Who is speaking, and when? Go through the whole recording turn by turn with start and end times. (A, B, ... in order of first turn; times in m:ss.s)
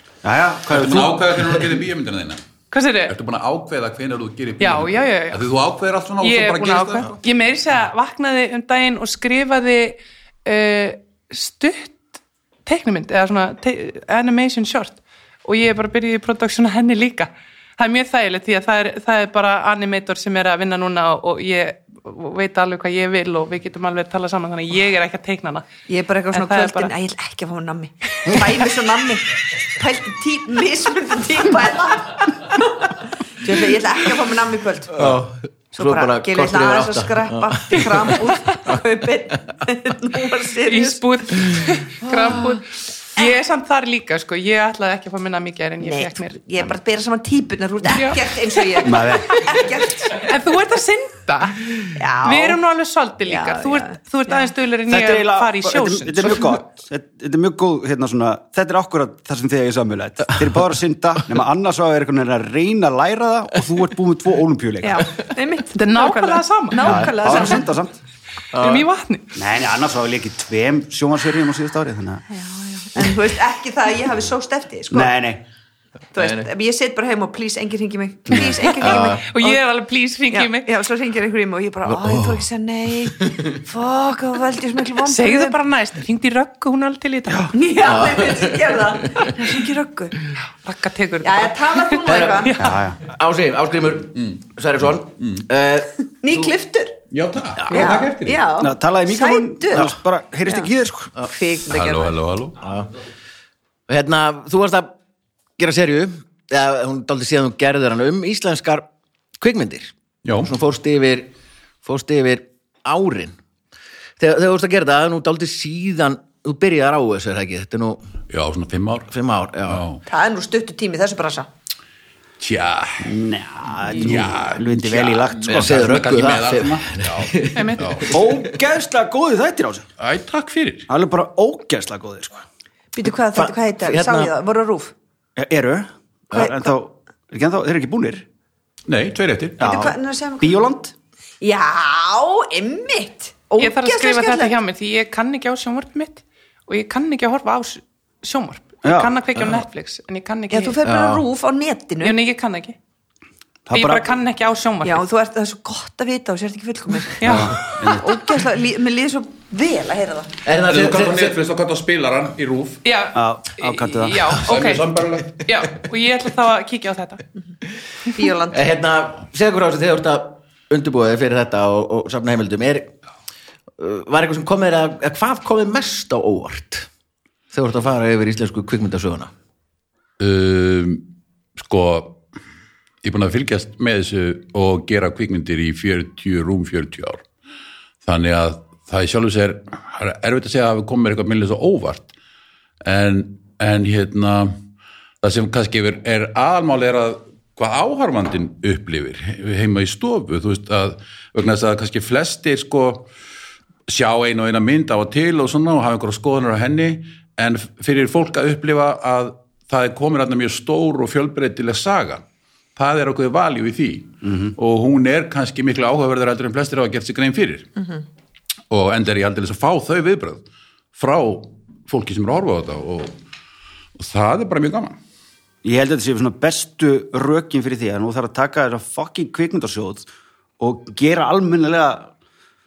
0:00.2-0:01.4 A
0:00.7-0:02.4 B
0:02.7-0:03.2 C
0:03.1-0:07.1 B
0:04.6-0:05.4 C
0:06.2-0:12.1 C
0:12.7-0:25.7 C
0:25.9-0:35.2 D
0:26.3-0:26.9 C
0:35.0-0:38.8 E
0:35.8-0:41.0 D
0:40.7-0:46.4 C
0:42.0-0:42.6 D
0:45.8-0:50.3 D
0:47.9-0:49.4 C
0:48.8-0:49.4 A
0:50.1-0:56.6 C
0:51.9-0:52.6 D
0:53.3-0:54.5 D
0:54.9-1:05.1 A
1:04.8-1:07.7 D
1:05.7-1:07.6 C
1:06.8-1:08.0 A
1:08.5-1:08.9 E
1:08.6-1:09.4 C
1:09.4-1:12.2 A
1:12.3-1:15.1 D
1:14.9-1:15.4 A
1:16.1-1:19.6 D
1:16.2-1:16.5 E
1:18.3-1:19.2 E
1:18.6-1:20.7 C
1:20.3-1:25.6 D
1:21.9-1:22.4 E
1:23.2-1:23.6 E
1:25.0-1:27.6 C
1:27.5-1:30.2 D
1:27.8-1:29.4 E
1:30.6-1:32.8 C
1:31.2-1:32.6 D
1:32.0-1:36.5 E
1:32.6-1:33.0 A
1:34.2-1:34.4 B
1:35.2-1:35.4 B
1:36.2-1:37.0 D
1:37.1-1:38.4 B
1:37.6-1:38.0 E
1:37.7-1:39.9 D
1:38.6-1:41.1 A
1:41.2-1:42.2 D
1:41.7-1:42.6 B
1:42.6-1:42.9 E
1:43.9-1:44.9 E
1:45.6-1:48.9 E
1:49.4-1:51.3 E
1:50.2-1:50.5 B
1:51.8-1:53.4 E
1:54.2-1:58.0 E
1:58.3-1:59.1 B
1:59.1-1:59.9 E
1:59.7-2:00.0 B
2:00.1-2:01.5 D
2:02.4-2:03.1 B
2:03.0-2:06.2 A
2:03.9-2:08.2 B
2:05.5-2:08.4 E
2:07.5-2:07.9 C
2:08.1-2:09.9 A
2:10.0-2:10.9 B
2:10.9-2:12.4 A
2:12.9-2:14.9 D
2:13.3-2:14.3 E
2:15.4-2:18.2 A
2:16.4-2:16.7 D
2:18.9-2:19.6 B
2:19.6-2:20.9 A
2:19.6-2:20.6 D
2:21.4-2:24.6 D
2:23.6-2:30.8 C
2:28.8-2:29.1 A
2:30.5-2:32.2 D
2:30.8-2:31.2 E
2:32.0-2:32.8 C
2:33.7-2:34.1 A
2:33.7-2:35.0 C
2:34.8-2:40.4 D
2:37.2-2:37.6 C
2:37.2-2:38.1 A
2:40.4-2:41.4 E
2:40.6-2:42.8 B
2:42.8-2:47.2 C
2:43.1-2:44.4 A
2:44.4-2:45.4 B
2:48.2-2:48.7 D
2:48.5-2:52.9 E
2:53.8-2:56.9 E
2:57.5-2:59.3 E
3:00.2-3:01.0 B
3:01.6-3:02.2 B
3:03.0-3:07.2 B
3:08.0-3:12.1 B
3:12.8-3:14.6 B
3:15.2-3:23.1 B
3:23.9-3:32.2 B
3:32.8-3:37.7 B
3:34.2-3:34.5 A
3:38.7-3:40.4 B
3:41.0-3:43.2 B
3:44.0-3:45.0 B
3:45.6-3:50.1 A
3:50.6-3:52.1 A